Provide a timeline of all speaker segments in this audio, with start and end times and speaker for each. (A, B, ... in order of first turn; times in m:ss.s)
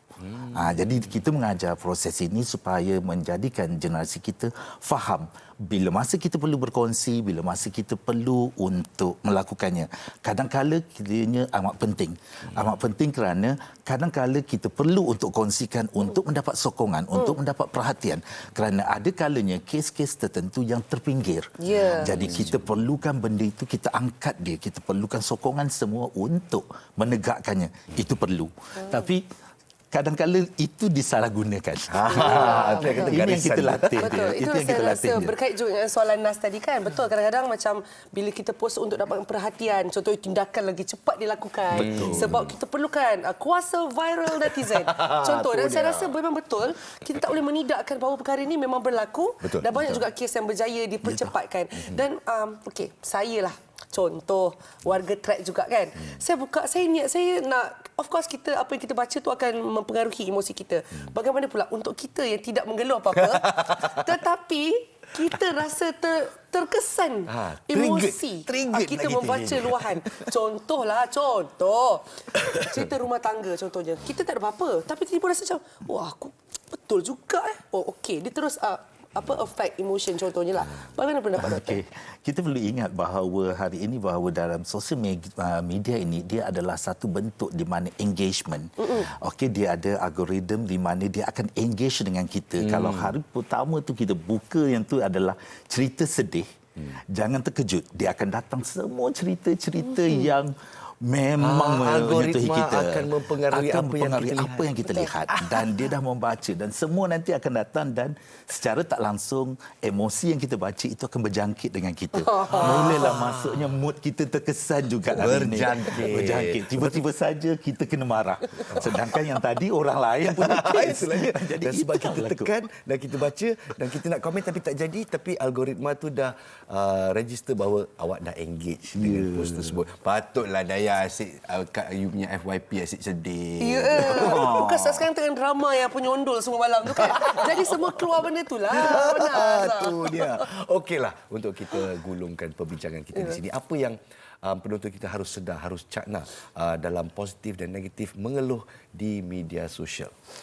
0:00.2-0:01.1 A
0:00.6-0:29.3 B
0:21.6-0:22.2 C
0:22.0-0:22.6 A
0:28.8-0:29.1 C
0:29.9-0:35.4 B
0:31.9-0:34.3 A
0:32.1-0:33.1 C
0:34.0-1:21.8 C
0:41.7-0:42.5 A
0:41.8-0:42.5 B
0:44.4-0:46.2 A
0:49.4-0:50.1 A
0:51.8-0:52.0 A
1:03.2-1:04.0 A
1:07.3-1:10.3 A
1:12.4-1:12.8 A
1:21.4-2:02.5 B
1:28.8-1:29.1 C
1:32.6-1:33.2 A
1:40.0-1:40.3 C
1:41.4-1:44.7 A
1:44.9-1:45.2 C
1:45.3-1:45.6 A
1:52.2-1:53.2 C
1:52.5-1:53.8 A
1:55.1-1:57.0 A
1:58.6-1:59.0 A
2:00.4-2:15.1 A
2:09.0-2:09.8 B
2:13.6-2:20.5 C
2:16.9-2:18.1 A
2:18.7-2:30.1 A